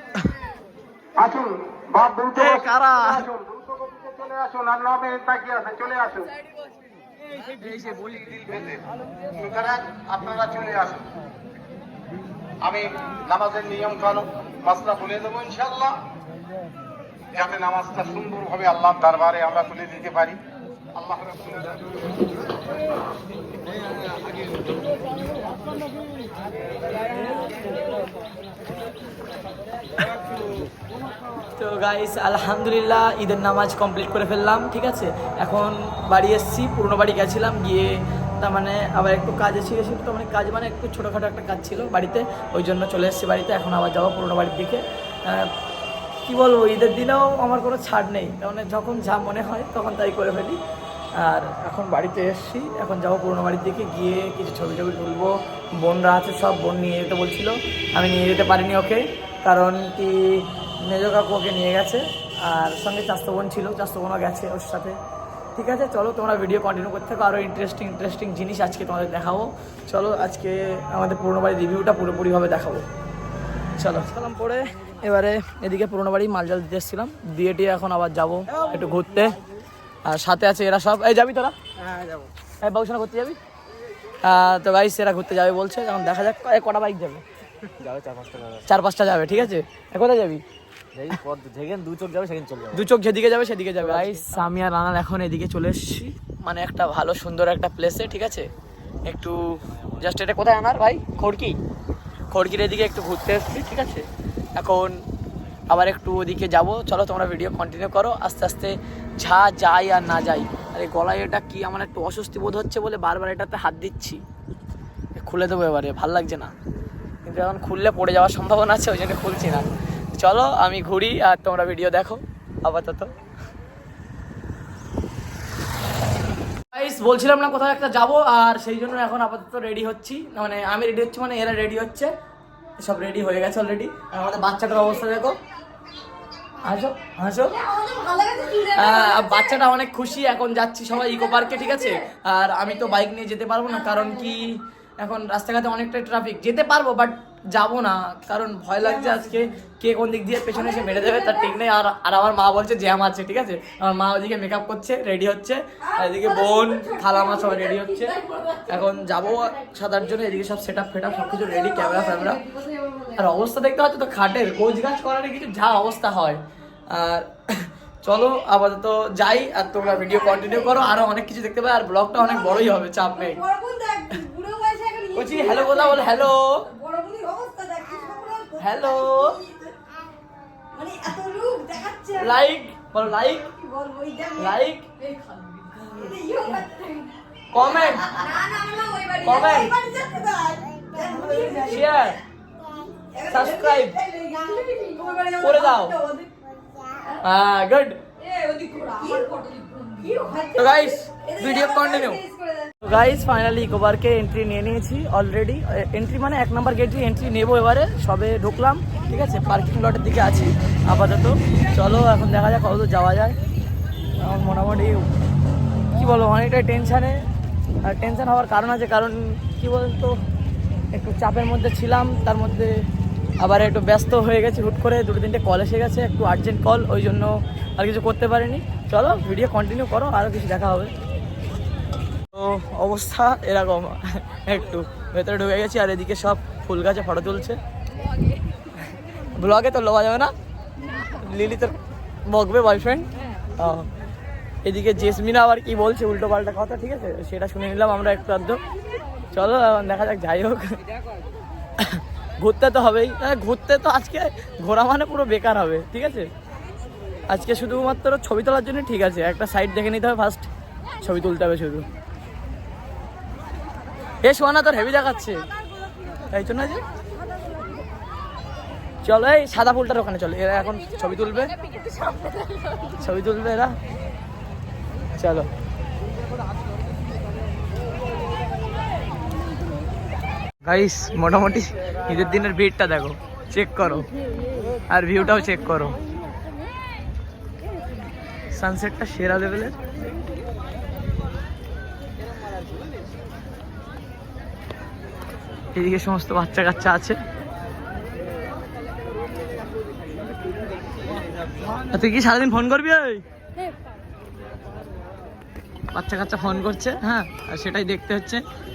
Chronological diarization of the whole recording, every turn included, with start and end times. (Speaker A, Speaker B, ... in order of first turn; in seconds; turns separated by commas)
Speaker A: 1.2-6.3, Speaker B: 2.3-3.3, Speaker B: 7.6-8.7, Speaker A: 8.3-8.8, Speaker A: 9.3-11.1, Speaker A: 12.6-16.0, Speaker A: 17.3-20.4, Speaker A: 20.9-21.8, Speaker B: 31.6-45.5, Speaker B: 46.2-50.6, Speaker B: 51.2-65.0, Speaker B: 65.5-72.8, Speaker B: 73.8-79.4, Speaker B: 80.0-81.5, Speaker C: 81.8-82.3, Speaker B: 82.6-83.4, Speaker B: 84.2-87.2, Speaker C: 87.8-88.7, Speaker B: 88.7-90.4, Speaker C: 91.0-92.9, Speaker B: 92.7-98.5, Speaker C: 93.9-94.3, Speaker B: 99.1-101.6, Speaker B: 102.3-105.0, Speaker B: 105.7-114.2, Speaker B: 115.2-116.5, Speaker B: 117.2-123.1, Speaker B: 126.7-132.1, Speaker B: 132.8-135.4, Speaker B: 136.6-137.6, Speaker D: 137.5-139.4, Speaker B: 138.6-162.4, Speaker D: 141.4-142.0, Speaker D: 156.0-158.7, Speaker D: 161.4-163.2, Speaker B: 163.2-173.4, Speaker D: 170.2-170.5, Speaker D: 173.2-176.2, Speaker B: 175.2-176.7, Speaker D: 176.7-179.8, Speaker B: 178.6-179.4, Speaker D: 180.7-182.3, Speaker B: 182.2-183.5, Speaker D: 183.5-184.5, Speaker B: 184.4-184.9, Speaker D: 185.1-187.4, Speaker B: 185.7-186.3, Speaker B: 187.5-188.2, Speaker D: 187.9-191.9, Speaker B: 189.2-189.7, Speaker B: 191.1-192.2, Speaker D: 192.9-196.3, Speaker B: 193.2-194.0, Speaker B: 195.4-196.0, Speaker B: 197.2-198.0, Speaker D: 198.2-202.8, Speaker B: 200.4-202.2, Speaker B: 202.8-213.4, Speaker B: 214.2-215.1, Speaker B: 215.9-217.2, Speaker B: 217.8-220.2, Speaker B: 220.9-222.8, Speaker B: 223.4-230.9, Speaker B: 232.3-237.6, Speaker B: 239.3-240.3, Speaker B: 241.0-243.9, Speaker B: 244.6-248.6, Speaker B: 249.3-250.8, Speaker B: 251.8-256.3, Speaker B: 257.3-260.5, Speaker B: 261.0-261.9, Speaker B: 264.2-265.4, Speaker B: 266.3-266.8, Speaker B: 269.0-271.5, Speaker B: 272.9-273.7, Speaker B: 275.1-275.5, Speaker B: 280.6-284.1, Speaker B: 284.9-286.0, Speaker B: 288.6-289.8, Speaker B: 295.7-297.2, Speaker B: 301.7-303.2, Speaker B: 305.9-308.4